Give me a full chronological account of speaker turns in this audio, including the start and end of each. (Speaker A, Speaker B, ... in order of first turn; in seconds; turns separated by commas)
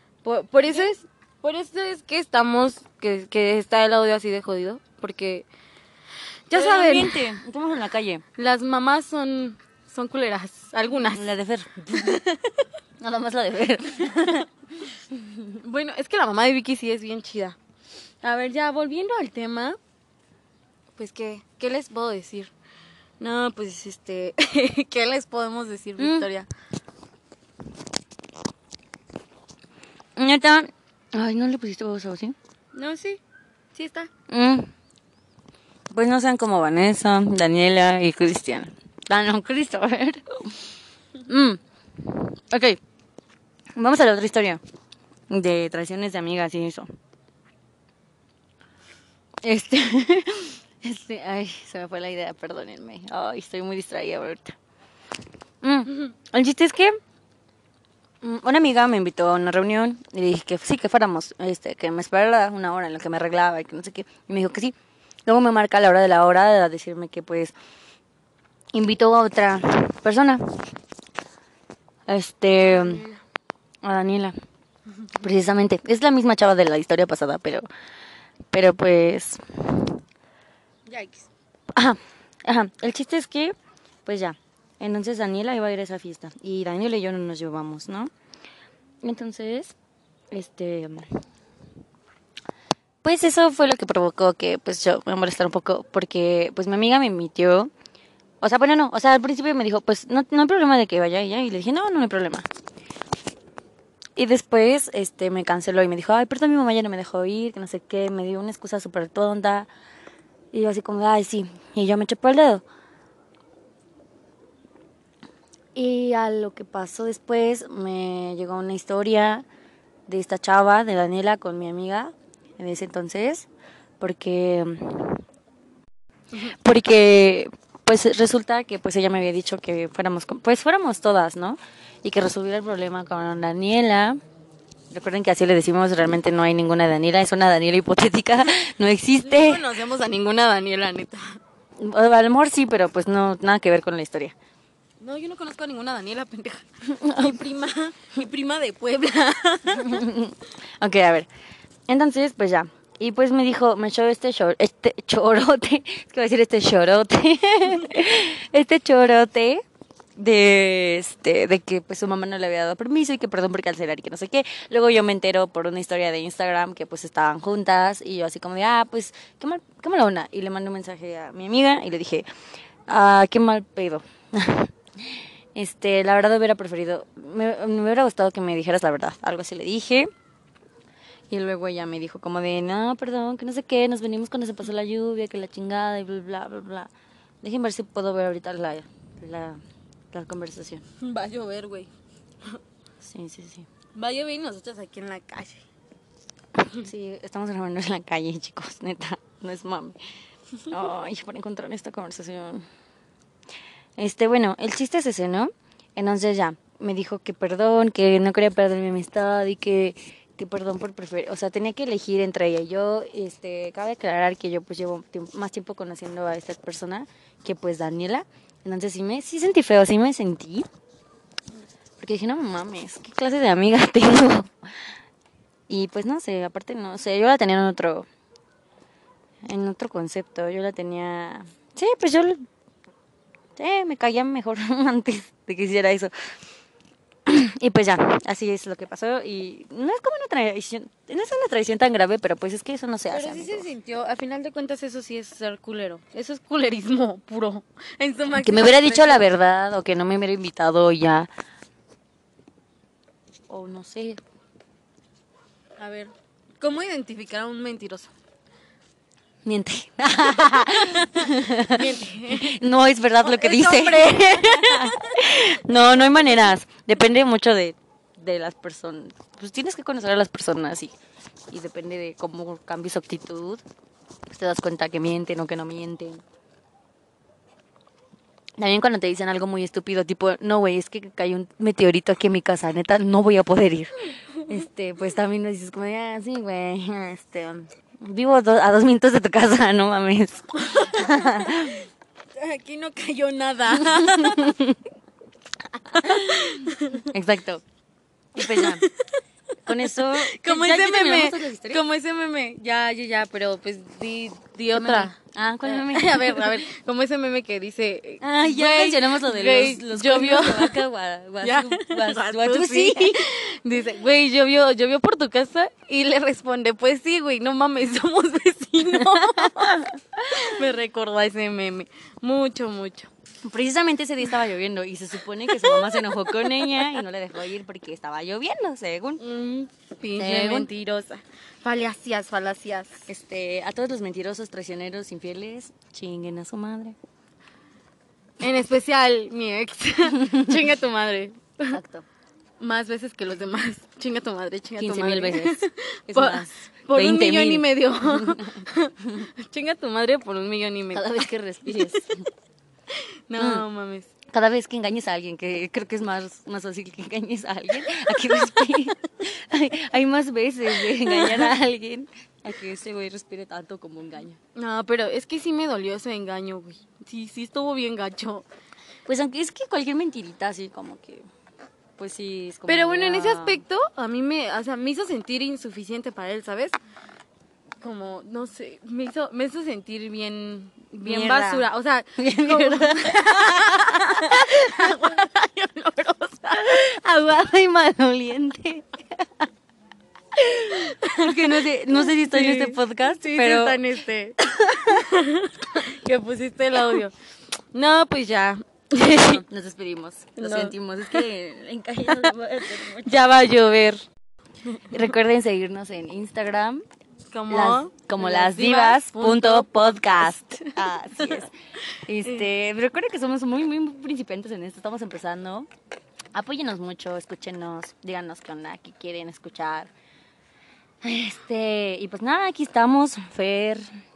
Speaker A: 0.2-5.5, Speaker A: 6.5-7.2, Speaker B: 6.5-8.2, Speaker A: 8.3-11.3, Speaker B: 11.1-12.2, Speaker A: 11.9-12.6, Speaker B: 13.0-14.4, Speaker A: 14.2-14.4, Speaker A: 15.6-17.6, Speaker A: 18.2-19.8, Speaker A: 21.0-22.5, Speaker A: 23.2-26.5, Speaker B: 26.0-26.3, Speaker B: 30.1-32.4, Speaker A: 32.7-33.2, Speaker A: 33.7-34.1, Speaker B: 34.3-34.7, Speaker B: 35.9-40.2, Speaker B: 41.3-42.8, Speaker B: 43.8-44.6, Speaker B: 45.3-46.9, Speaker B: 49.4-54.5, Speaker B: 55.6-57.0, Speaker B: 58.2-64.7, Speaker B: 65.2-67.5, Speaker B: 68.7-70.6, Speaker B: 72.1-73.0, Speaker A: 72.7-73.1, Speaker B: 73.8-74.3, Speaker B: 75.1-77.6, Speaker B: 78.5-79.9, Speaker A: 80.9-81.3, Speaker B: 81.7-83.5, Speaker B: 84.0-88.1, Speaker B: 89.0-89.7, Speaker B: 90.3-91.0, Speaker B: 93.0-97.7, Speaker B: 98.4-102.5, Speaker B: 104.2-109.7, Speaker B: 110.5-112.6, Speaker B: 115.8-119.4, Speaker B: 120.1-123.5, Speaker B: 124.0-125.2, Speaker B: 126.6-134.2, Speaker B: 134.9-139.6, Speaker A: 139.2-141.4, Speaker B: 141.8-144.3, Speaker A: 145.0-150.0, Speaker B: 146.9-147.4, Speaker B: 149.8-151.3, Speaker B: 151.9-159.6, Speaker B: 160.2-172.2, Speaker B: 172.9-174.7, Speaker B: 175.6-180.1, Speaker B: 181.3-186.9, Speaker B: 187.4-189.6, Speaker B: 190.1-190.8, Speaker A: 191.0-191.9, Speaker B: 193.0-193.7, Speaker A: 193.9-195.6, Speaker B: 196.8-200.0, Speaker B: 200.7-202.7, Speaker B: 204.0-220.7, Speaker B: 222.0-224.5, Speaker B: 225.7-228.1, Speaker B: 229.4-232.5, Speaker B: 233.6-236.1, Speaker B: 237.3-243.7, Speaker A: 243.1-249.3, Speaker B: 248.3-251.3, Speaker B: 253.5-254.2, Speaker A: 255.8-258.1, Speaker B: 259.4-270.9, Speaker A: 260.8-262.6, Speaker A: 263.2-265.2, Speaker B: 271.5-273.6, Speaker B: 274.3-276.2, Speaker B: 278.6-291.9, Speaker A: 290.7-291.7, Speaker A: 292.4-294.6, Speaker B: 293.9-294.8, Speaker A: 295.9-297.1, Speaker B: 295.9-297.6, Speaker B: 298.3-298.8, Speaker A: 298.4-299.1, Speaker B: 299.6-301.8, Speaker A: 300.3-310.8, Speaker B: 304.7-306.6, Speaker B: 308.2-313.2, Speaker A: 311.4-323.1, Speaker B: 319.0-320.4, Speaker B: 323.4-329.2, Speaker A: 325.5-326.9, Speaker A: 329.2-333.0, Speaker B: 330.1-330.7, Speaker B: 333.1-336.9, Speaker A: 338.4-341.8, Speaker B: 341.7-342.0, Speaker A: 342.6-351.1, Speaker B: 344.8-348.6, Speaker B: 350.9-352.3, Speaker A: 351.7-352.0, Speaker A: 352.9-354.1, Speaker B: 353.4-353.6, Speaker B: 354.3-364.4, Speaker A: 358.1-358.8, Speaker A: 360.8-361.5, Speaker A: 364.5-368.4, Speaker B: 369.1-371.2, Speaker B: 372.0-373.6, Speaker A: 372.7-376.8, Speaker A: 377.8-386.8, Speaker B: 381.0-381.6, Speaker B: 382.2-384.9, Speaker B: 386.5-389.3, Speaker A: 390.4-397.1, Speaker B: 390.7-393.8, Speaker B: 394.4-395.0, Speaker A: 397.7-399.4, Speaker B: 399.2-403.2, Speaker A: 400.4-401.2, Speaker A: 402.1-404.0, Speaker B: 404.9-406.8, Speaker A: 407.3-411.5, Speaker B: 407.5-411.5, Speaker B: 412.1-415.7, Speaker B: 416.3-419.9, Speaker B: 421.0-423.9